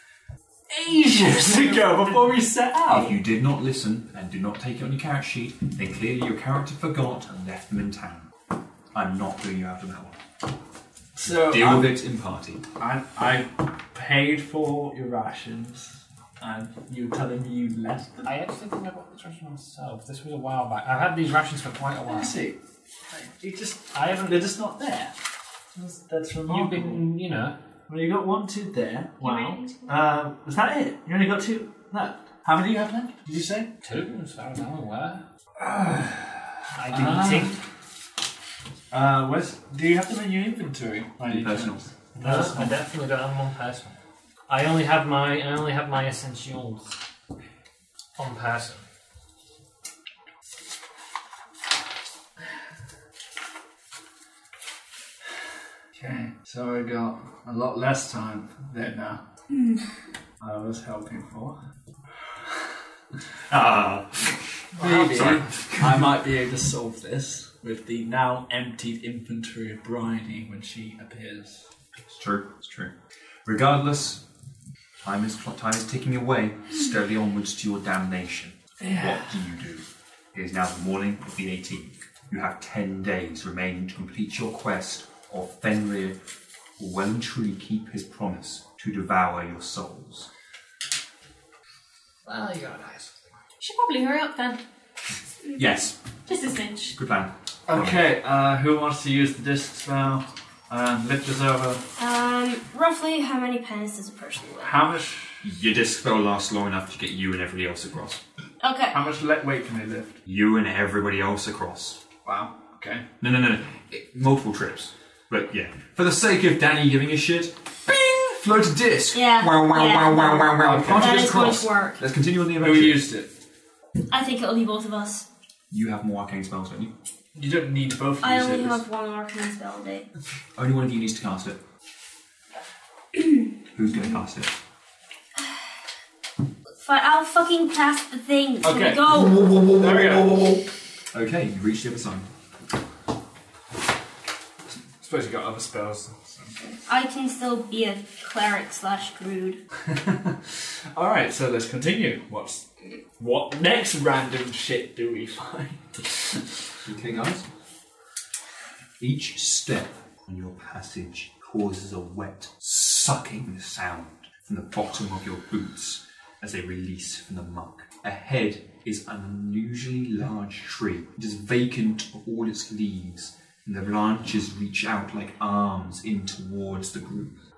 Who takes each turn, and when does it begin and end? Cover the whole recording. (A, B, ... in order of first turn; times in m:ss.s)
0:00.7-0:03.2 A
0:01.4-0:01.9 B
0:02.9-0:08.3 C
0:08.9-0:10.2 C
0:11.1-0:12.0 A
0:11.3-0:12.6 C
0:12.8-0:18.3 A
0:18.2-0:22.3 B
0:22.1-0:22.6 A
0:23.1-0:25.1 A
0:23.9-0:24.5 B
0:25.8-0:27.0 A
0:26.4-0:27.6 B
0:27.9-0:33.7 A
0:29.2-0:30.0 D
0:33.8-0:35.2 B
0:35.6-0:37.6 A
0:36.7-0:37.6 B
0:38.9-0:42.8 A
0:41.2-0:41.9 C
0:42.2-0:44.0 B
0:44.5-0:46.9 B
0:48.2-0:48.8 B
0:56.0-0:59.2 A
0:59.5-0:59.8 E
1:00.4-1:01.6 A
1:03.5-1:06.2 C
1:04.8-1:11.6 A
1:04.8-1:05.3 B
1:12.1-1:12.9 C
1:13.4-1:14.2 C
1:15.0-1:26.2 C
1:18.8-1:19.3 A
1:26.8-1:30.3 C
1:32.2-1:33.1 B
1:33.6-1:34.6 D
1:35.6-1:36.0 C
1:36.2-1:37.0 D
1:36.9-1:38.1 C
1:37.7-1:41.8 A
1:42.0-1:44.7 E
1:44.6-1:45.4 A
1:45.4-1:48.2 C
1:48.6-1:49.0 E
1:48.9-1:50.2 A
1:50.2-1:52.0 C
1:52.2-1:53.0 A
1:53.2-2:03.1 C
1:59.1-2:02.0 E
2:00.6-2:01.2 A
2:02.5-2:03.3 A
2:04.1-2:05.2 E
2:05.7-2:06.9 C
2:07.3-2:08.8 A
2:08.2-2:10.1 E
2:10.6-2:11.6 C
2:13.7-2:14.6 C
2:16.8-2:19.4 E
2:18.6-2:20.6 A
2:19.1-2:22.3 C
2:25.0-2:26.6 A
2:26.6-2:29.6 E
2:29.9-2:30.4 A
2:30.9-2:32.6 A
2:33.2-2:36.5 A
2:36.8-2:37.4 C
2:39.0-2:57.4 C